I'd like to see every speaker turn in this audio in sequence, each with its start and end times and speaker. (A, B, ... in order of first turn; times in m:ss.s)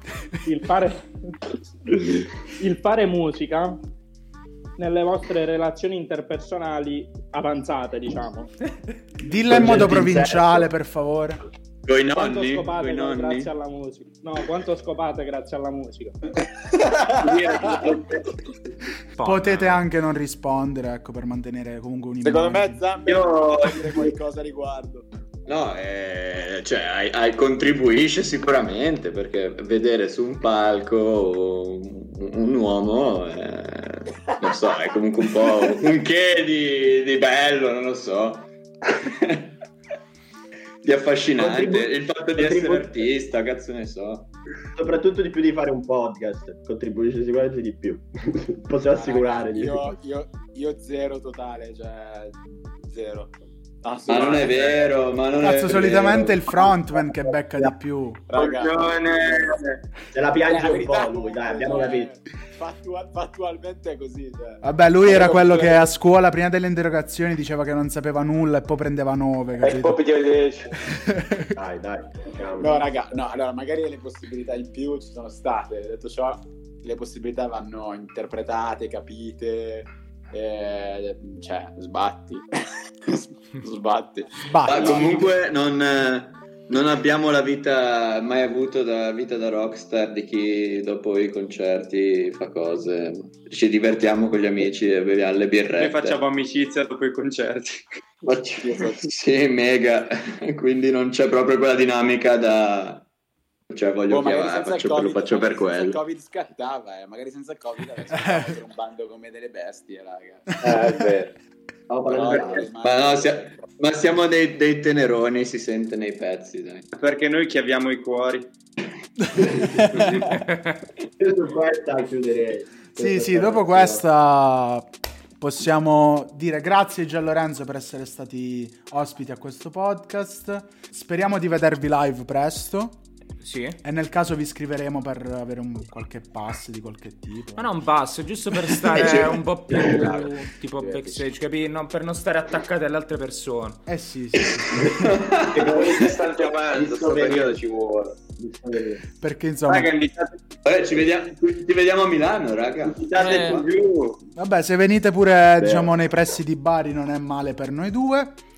0:00.4-0:03.8 A
0:04.8-0:08.5 A
0:09.2-0:11.4 B
0:09.5-0:10.7 C
0:11.9-0:13.5 D
0:12.1-0:16.2 A
0:16.7-0:18.0 E
0:17.2-0:18.4 F
0:19.2-0:19.8 G
0:19.2-0:22.8 B
0:22.2-0:25.1 E
0:23.1-0:24.0 F
0:25.5-0:39.5 D
0:40.8-0:44.3 D
0:41.4-0:43.0 C
0:44.8-0:50.0 C
0:48.9-0:55.0 E
0:54.1-0:56.7 D
0:55.4-0:58.2 B
0:58.3-0:59.6 E
0:58.3-0:59.8 F
1:00.1-1:02.1 C
1:00.4-1:05.9 E
1:04.6-1:10.0 B
1:09.6-1:10.8 H
1:10.8-1:11.5 B
1:11.6-1:13.2 C
1:12.6-1:25.3 E
1:24.5-1:25.2 B
1:24.6-1:36.2 D
1:35.8-1:38.0 F
1:38.2-1:43.1 D
1:38.6-1:39.1 E
1:43.7-1:46.0 D
1:44.1-1:50.5 E
1:48.1-1:48.6 B
1:50.6-1:51.3 H
1:51.9-1:52.7 C
1:52.1-1:53.5 E
1:52.8-1:56.9 D
1:56.9-1:58.5 F
1:59.2-2:00.3 B
1:59.5-1:59.8 C
1:59.9-2:00.3 F
2:00.3-2:00.8 G
2:01.2-2:04.0 C
2:03.0-2:13.0 B
2:13.4-2:13.8 G
2:13.8-2:17.7 B
2:17.6-2:23.9 G
2:18.9-2:19.3 B
2:19.7-2:20.3 C
2:23.9-2:25.0 B
2:25.0-2:25.7 D
2:25.5-2:26.2 C
2:25.6-2:28.2 H
2:26.7-2:27.6 C
2:28.4-2:29.0 C
2:29.2-2:29.9 B
2:29.7-2:30.4 F
2:30.6-2:33.7 D
2:33.0-2:34.2 F
2:34.4-2:38.4 B
2:35.6-2:36.0 C